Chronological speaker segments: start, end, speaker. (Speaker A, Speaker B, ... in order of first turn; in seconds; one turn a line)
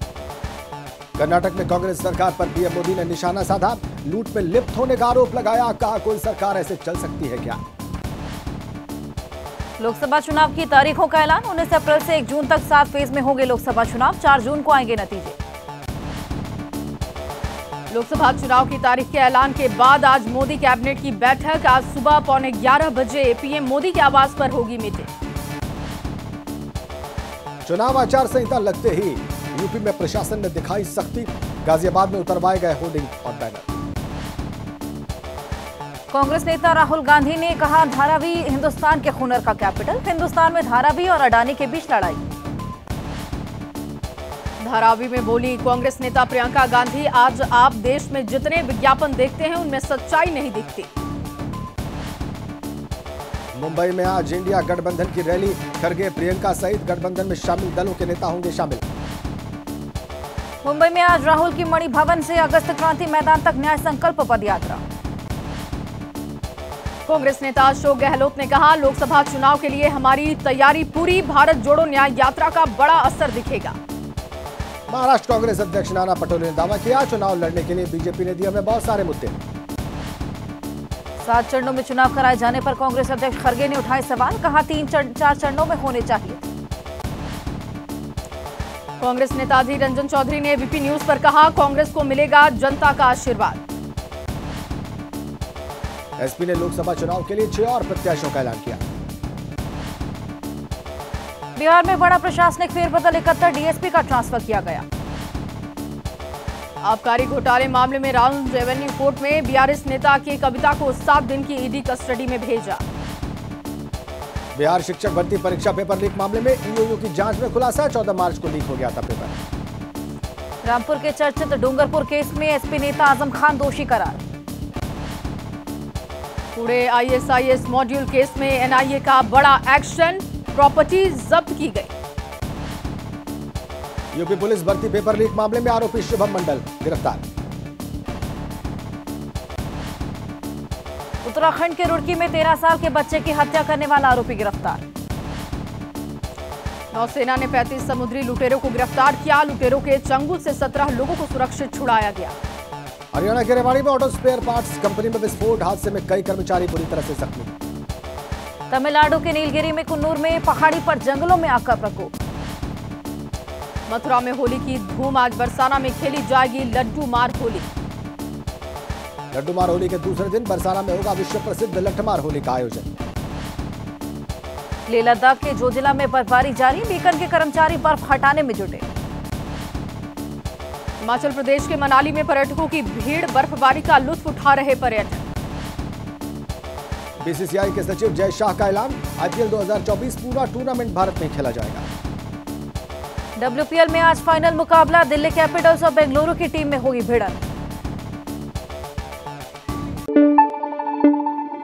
Speaker A: 1.2-7.6
Speaker B: 9.8-15.3
Speaker C: 17.9-25.1
Speaker A: 27.6-33.7
Speaker B: 36.1-42.2
Speaker C: 44.6-50.9
Speaker A: 53.5-58.8
Speaker B: 60.6-64.8
Speaker C: 67.1-73.8
Speaker A: 74.9-79.4
Speaker B: 81.2-86.5
Speaker C: 89.0-93.6
Speaker A: 96.2-98.8
Speaker B: 101.5-104.8
Speaker C: 106.8-112.8
Speaker A: 114.5-119.3
Speaker B: 120.6-124.2
Speaker C: 126.5-131.9
Speaker A: 134.1-137.2
Speaker B: 141.2-144.8
Speaker C: 146.9-152.3
Speaker A: 153.1-157.5
Speaker B: 158.7-162.1
Speaker C: 163.9-167.7
Speaker A: 169.3-172.9
Speaker B: 174.9-178.8
Speaker C: 181.0-185.2
Speaker A: 187.2-191.8
Speaker B: 193.4-197.4